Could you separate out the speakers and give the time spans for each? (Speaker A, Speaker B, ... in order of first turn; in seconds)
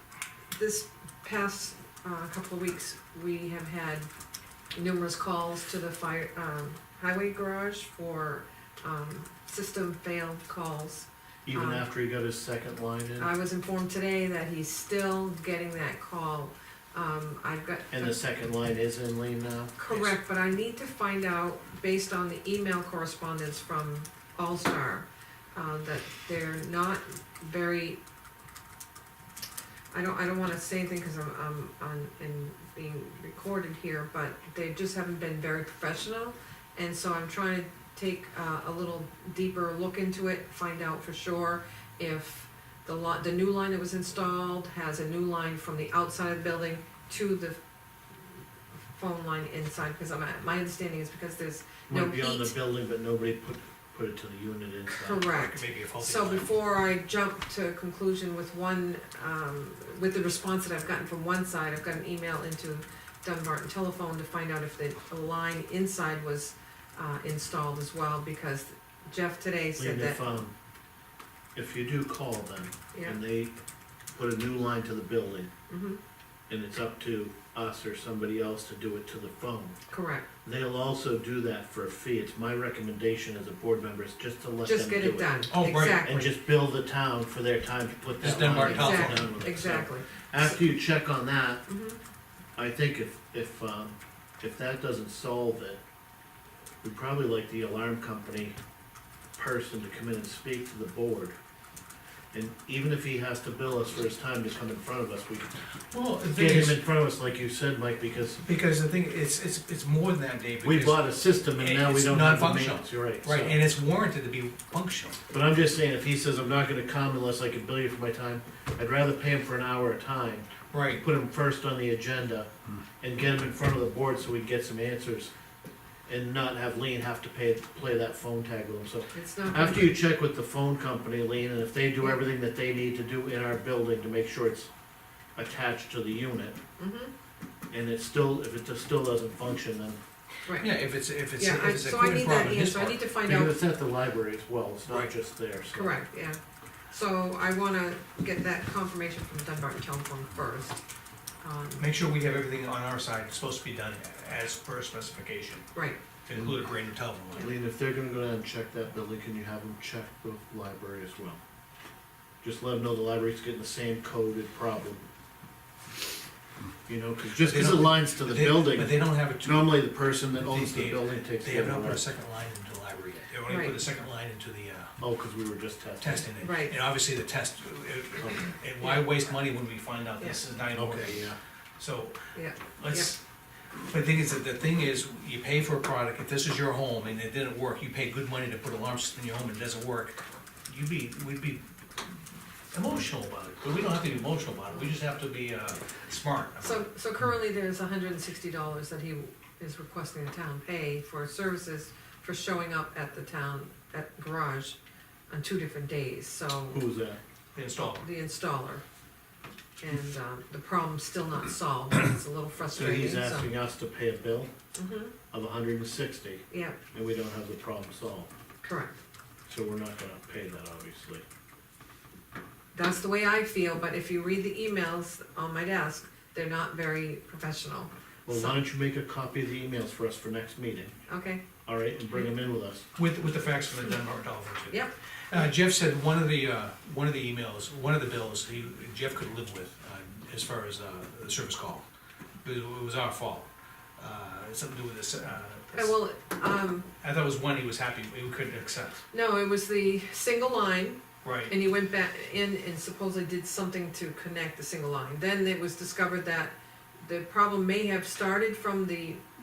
Speaker A: 0.5-4.1, 4.7-11.8, 13.2-18.1, 19.8-28.0, 29.9-47.6, 48.9-52.5, 54.9-70.2, 72.9-73.2, 75.7-76.0, 79.9-80.2, 84.6-86.3, 88.6-90.5, 91.7-92.0, 129.1-129.9, 136.8-137.1, 140.4-140.8, 141.4-143.6, 145.7-146.4, 146.9-150.8, 151.4-151.9, 155.7-156.0, 173.4-173.8, 176.4-176.8, 178.8-179.1, 182.3-183.1, 196.6-204.8, 205.3-206.8, 207.8-208.8, 209.8-213.5, 214.7-215.1, 216.5-216.8, 218.6-219.0, 222.7-228.6, 231.1-231.4, 245.7-246.9, 249.1-259.2
Speaker B: 11.5-13.3, 17.9-19.8, 51.9-55.3, 69.8-70.5, 71.5-73.5, 74.1-75.5, 76.5-79.8, 80.4-85.4, 86.0-91.6, 92.5-95.8, 96.8-98.5, 99.4-101.3, 102.3-105.6, 106.3-108.4, 110.6-113.6, 115.3-122.5, 123.0-125.3, 126.1-134.7, 135.3-136.6, 137.7-140.0, 143.2-146.0, 157.3-161.4, 162.4-165.0, 166.9-172.1, 175.0-176.3, 178.2-178.5, 180.7-181.4, 206.7-207.2, 212.7-214.5, 215.3-218.3, 219.5-221.2, 228.2-230.9, 231.7-232.8
Speaker C: 55.3-56.5, 85.5-86.1, 88.2-89.3, 105.9-106.8, 108.4-115.2, 120.7-121.0, 140.6-143.1, 151.8-155.6, 156.2-157.5, 167.4-174.9, 176.0-182.2, 182.8-183.2, 183.8-191.6, 192.7-196.9, 207.5-208.0, 232.9-241.8, 242.4-246.0, 247.0-249.0, 251.2-251.5